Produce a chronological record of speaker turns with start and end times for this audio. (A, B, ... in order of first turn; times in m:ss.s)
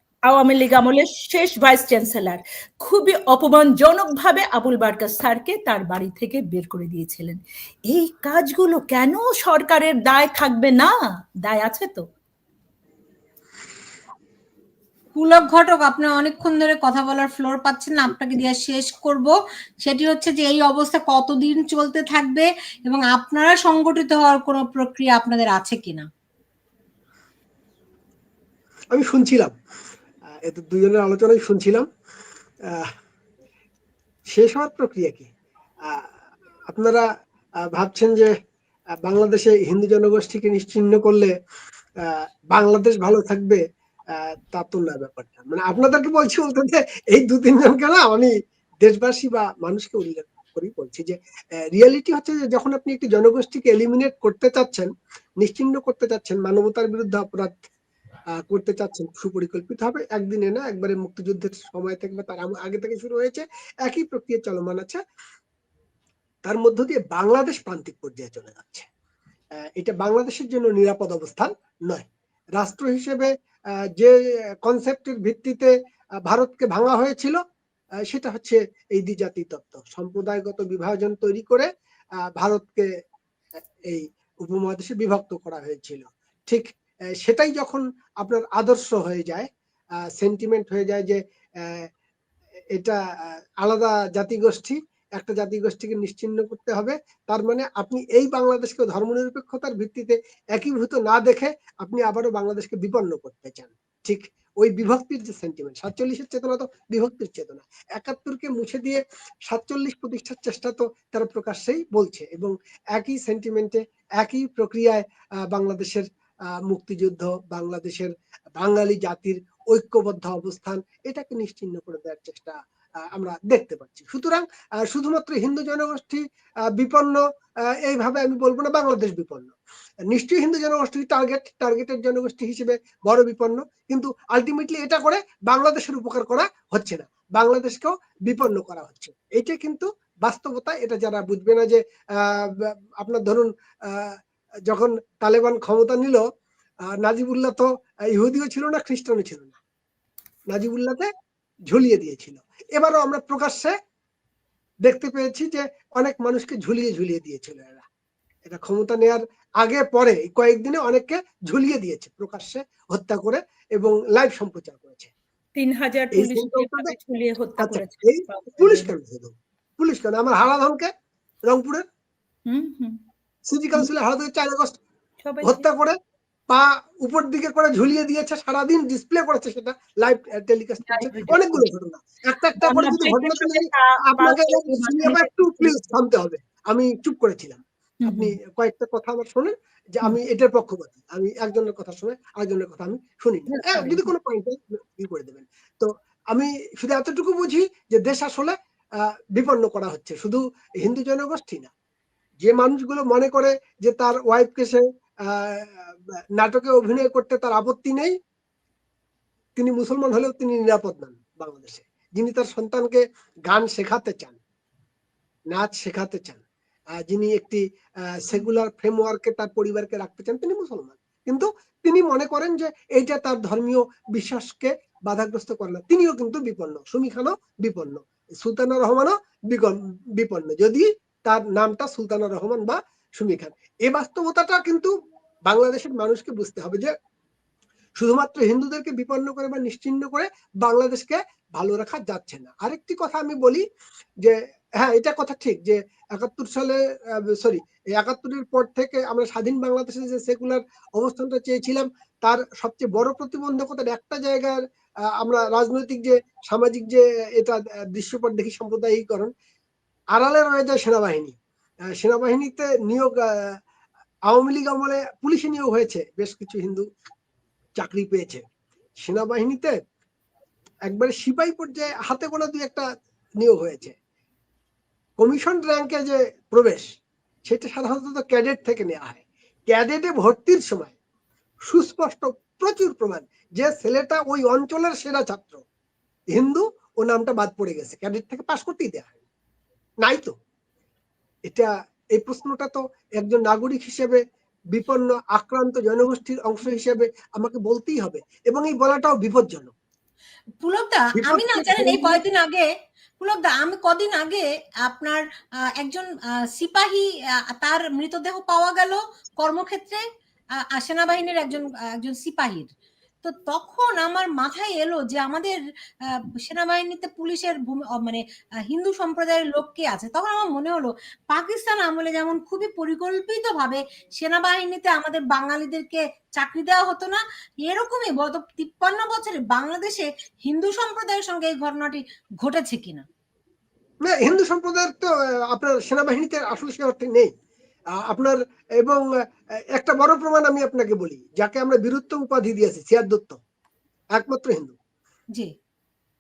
0:00.3-0:10.9 A
0:11.4-0:12.0 A
0:15.2-0:26.1 B
0:28.9-0:29.6 C
0:30.5-0:31.9 C
0:34.3-0:35.3 C
0:36.7-0:37.0 C
0:37.6-0:38.3 C
0:39.0-0:41.3 C
0:42.0-0:43.6 C
0:44.2-0:48.3 C
0:48.8-0:51.2 C
0:51.7-0:54.9 C
0:55.4-0:57.6 C
0:58.5-1:05.0 C
1:06.5-1:08.9 C
1:09.8-1:13.3 C
1:14.0-1:15.7 C
1:16.2-1:17.4 C
1:18.1-1:21.7 C
1:22.4-1:22.9 C
1:23.9-1:26.7 C
1:27.2-1:29.5 C
1:30.2-1:31.9 C
1:33.6-1:56.0 C
1:56.7-2:02.6 C
2:03.1-2:06.2 C
2:06.8-2:07.2 C
2:07.8-2:09.5 C
2:10.1-2:24.2 C
2:24.7-2:26.2 C
2:27.0-2:29.6 C
2:30.5-2:31.1 C
2:31.7-2:33.7 C
2:34.8-2:37.8 C
2:38.5-2:45.1 C
2:45.6-2:48.9 A
2:46.1-2:47.0 C
2:47.6-2:50.9 C
2:51.5-2:51.8 C
2:52.5-2:53.0 A
2:53.5-2:54.8 C
2:55.2-2:55.7 A
2:55.4-2:56.0 C
2:56.5-3:21.7 C
3:00.9-3:01.6 A
3:02.6-3:05.8 A
3:08.0-3:08.3 A
3:13.5-3:14.0 A
3:22.4-3:28.1 C
3:29.6-3:34.4 C
3:35.5-3:36.4 C
3:37.0-3:37.6 C
3:38.2-3:54.9 C
3:55.5-3:56.9 C
3:58.0-4:03.6 C
4:04.2-4:06.8 C
4:07.3-4:14.6 C
4:15.2-4:19.3 C
4:20.1-4:21.4 C
4:22.0-4:23.5 C
4:24.3-4:26.9 C
4:27.8-4:28.4 C
4:29.0-4:29.8 C
4:30.9-4:32.8 C
4:33.4-4:34.0 C
4:35.2-4:36.9 C
4:37.5-4:40.9 C
4:41.7-4:45.6 C
4:46.3-4:49.1 C
4:50.0-4:50.4 C
4:51.5-4:54.2 C
4:54.7-4:59.7 C
5:00.6-5:02.7 B
5:01.2-5:02.2 C
5:03.2-5:05.2 B
5:05.8-5:10.0 B
5:10.6-5:12.7 B
5:13.2-5:33.1 B
5:34.0-5:37.3 C
5:38.1-5:39.0 C
5:39.7-5:43.4 C
5:44.2-5:44.8 C